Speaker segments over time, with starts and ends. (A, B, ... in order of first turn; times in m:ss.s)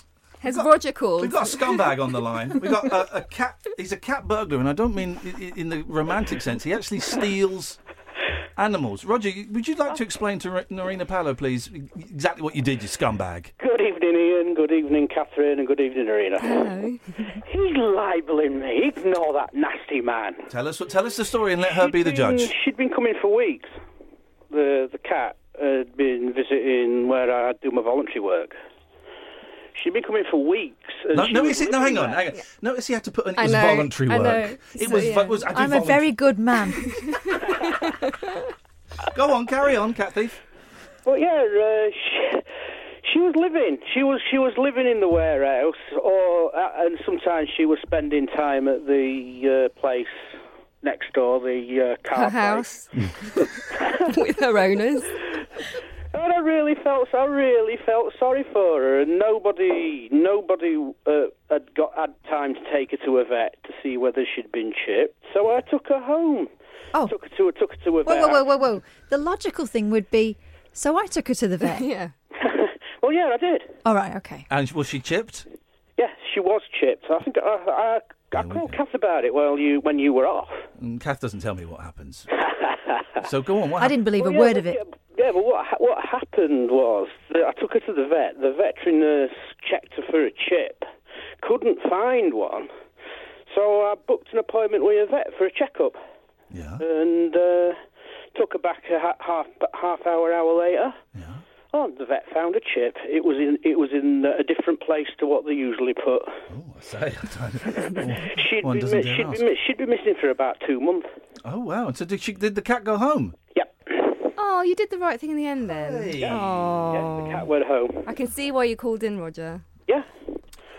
0:00.4-0:02.7 A
0:00.4-0:07.8 B
0:08.6-0:13.5 B
0:13.6-0:16.7 C
0:16.4-0:17.4 A
0:17.4-0:20.5 C
0:20.5-0:22.5 B
0:21.6-0:23.7 C
0:24.5-0:28.5 C
0:29.7-0:32.2 C
0:31.1-0:36.1 B
0:33.4-0:35.4 A
0:35.4-0:37.1 D
0:36.8-0:38.5 A
0:39.1-0:40.4 B
0:41.0-0:42.4 C
0:43.0-0:50.2 C
0:50.8-0:52.7 C
0:52.1-0:53.4 A
0:53.7-0:54.1 C
0:54.0-0:55.1 A
0:56.1-1:06.5 C
1:07.0-1:08.4 C
1:08.0-1:11.9 D
1:11.6-1:12.1 A
1:12.4-1:13.7 C
1:13.8-1:14.5 D
1:14.5-1:15.4 B
1:16.0-1:20.6 C
1:18.3-1:18.8 B
1:20.8-1:22.3 B
1:22.5-1:23.2 C
1:23.2-1:24.0 B
1:23.8-1:24.8 D
1:24.2-1:30.8 C
1:31.4-1:32.7 C
1:33.5-1:36.0 C
1:36.5-1:36.8 B
1:36.8-1:37.8 C
1:38.3-1:41.0 C
1:41.1-1:41.4 B
1:41.7-1:46.3 C
1:46.5-1:49.4 B
1:48.2-1:51.1 C
1:51.4-1:53.4 B
1:53.5-1:54.3 C
1:54.4-1:57.5 A
1:55.6-1:56.8 B
1:56.9-1:58.1 C
1:58.0-1:59.6 A